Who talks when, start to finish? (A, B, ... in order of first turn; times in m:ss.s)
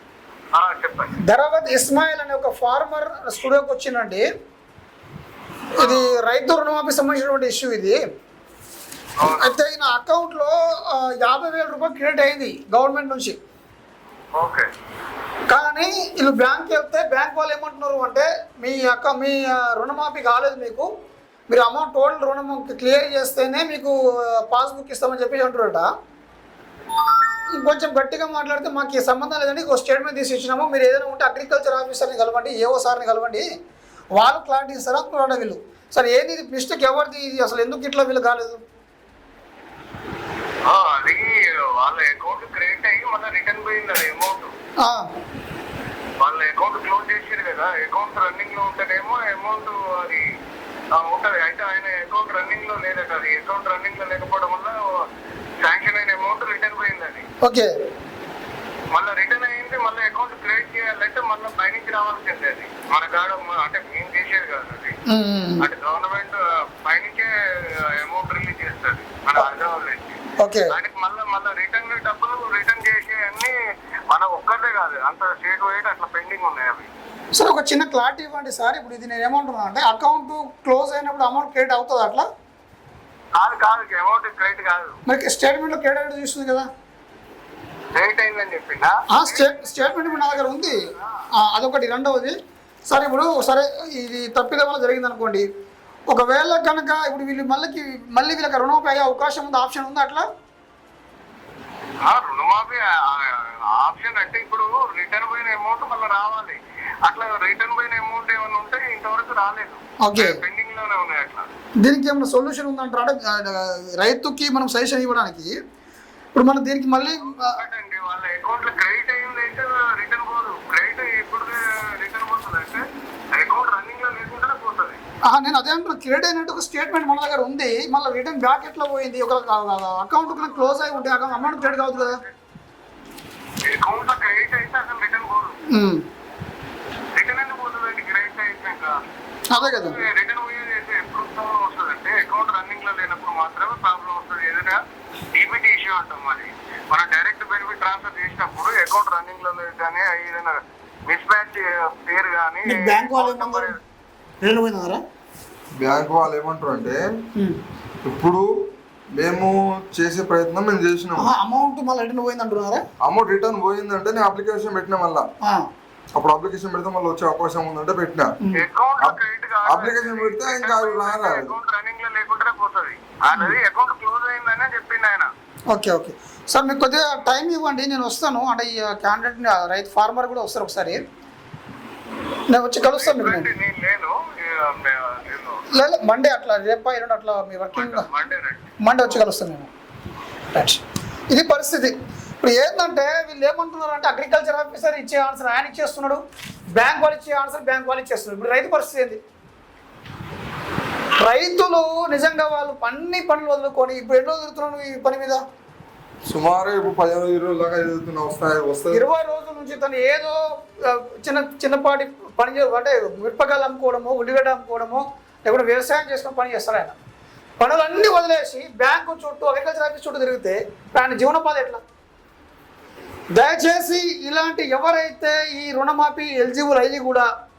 0:00.6-0:01.1 A
0:01.2-0:04.2 B
0:05.8-0:08.0 B
0:09.2-0:09.6 A
0:09.2-0:13.4 B
0:14.4-0:14.7 A
0:15.5-0:20.9 B
0:21.5-0:25.9 B
0:27.5-0:33.4 B
0:34.2-0:38.6 B
0:40.7-0:44.5 A
0:44.8-0:45.0 B
0:46.2-0:50.2 A
0:50.9-0:54.8 A
0:55.6-0:57.2 A
0:57.4-0:57.7 B
0:58.9-1:04.9 A
1:05.1-1:05.6 B
1:05.6-1:07.3 A
1:08.0-1:10.2 A
1:10.4-1:10.7 B
1:10.7-1:13.5 A
1:14.1-1:16.9 A
1:17.3-1:22.3 B
1:23.4-1:25.0 A
1:25.0-1:26.7 B
1:27.9-1:30.8 A
1:29.1-1:32.4 B
1:32.9-1:35.5 B
1:36.1-1:40.2 B
1:42.0-1:51.5 A
1:50.0-1:50.4 B
1:51.8-1:55.5 B
1:56.3-1:57.6 B
1:57.0-2:05.0 A
2:05.2-2:12.2 B
2:10.3-2:12.3 A
2:13.6-2:15.6 A
2:15.7-2:16.0 B
2:17.1-2:18.9 A
2:19.5-2:20.0 B
2:19.5-2:24.8 A
2:25.3-2:33.8 A
2:32.6-2:33.7 B
2:34.4-2:35.0 B
2:35.8-2:37.0 C
2:38.0-2:38.5 C
2:39.2-2:41.3 C
2:41.2-2:42.8 B
2:43.0-2:45.2 C
2:46.1-2:48.4 C
2:48.5-2:55.3 A
2:49.0-2:51.6 C
2:55.7-3:01.0 B
3:02.5-3:03.5 B
3:02.8-3:05.6 A
3:05.7-3:08.1 B
3:07.7-3:08.7 A
3:08.8-3:09.7 B
3:10.5-3:16.2 B
3:16.7-3:19.2 B
3:21.2-3:25.4 B
3:26.3-3:29.0 C
3:28.9-3:36.9 B
3:37.6-3:41.8 B
3:43.3-3:47.3 B